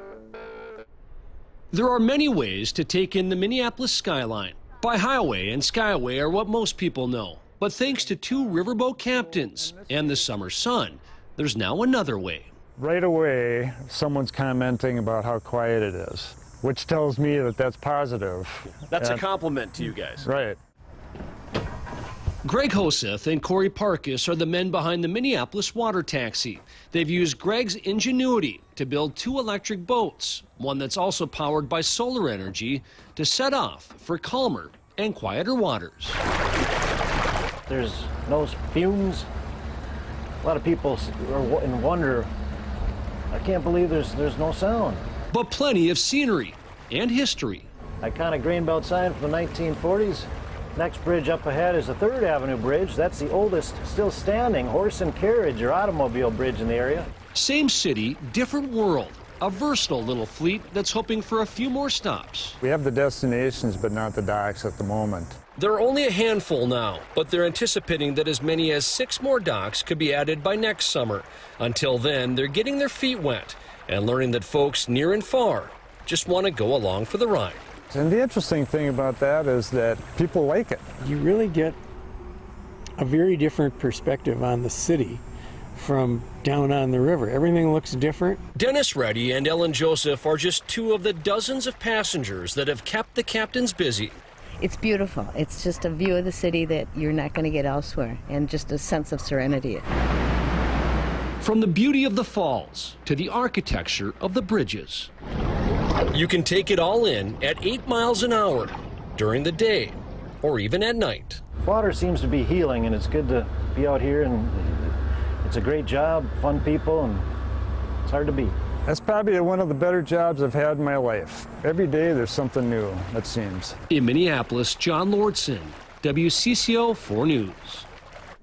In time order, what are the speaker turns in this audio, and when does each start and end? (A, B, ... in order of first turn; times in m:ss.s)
0:01.7-0:12.5 A
0:12.8-0:19.2 B
0:18.9-0:20.2 A
0:20.2-0:20.6 B
0:22.4-0:36.2 A
0:37.7-0:39.3 C
0:40.4-0:42.3 C
0:43.3-0:45.0 C
0:45.3-0:47.7 A
0:48.0-0:57.1 C
0:57.3-1:02.6 A
1:02.6-1:05.4 B
1:05.6-1:17.6 A
1:17.9-1:20.8 B
1:21.0-1:21.8 D
1:23.0-1:25.2 D
1:25.7-1:28.4 D
1:28.5-1:34.2 A
1:34.6-1:39.9 E
1:41.4-1:45.1 A
1:46.1-1:51.4 A
1:51.6-1:57.2 C
1:58.0-1:58.5 C
1:58.9-2:03.8 B
2:03.9-2:07.9 A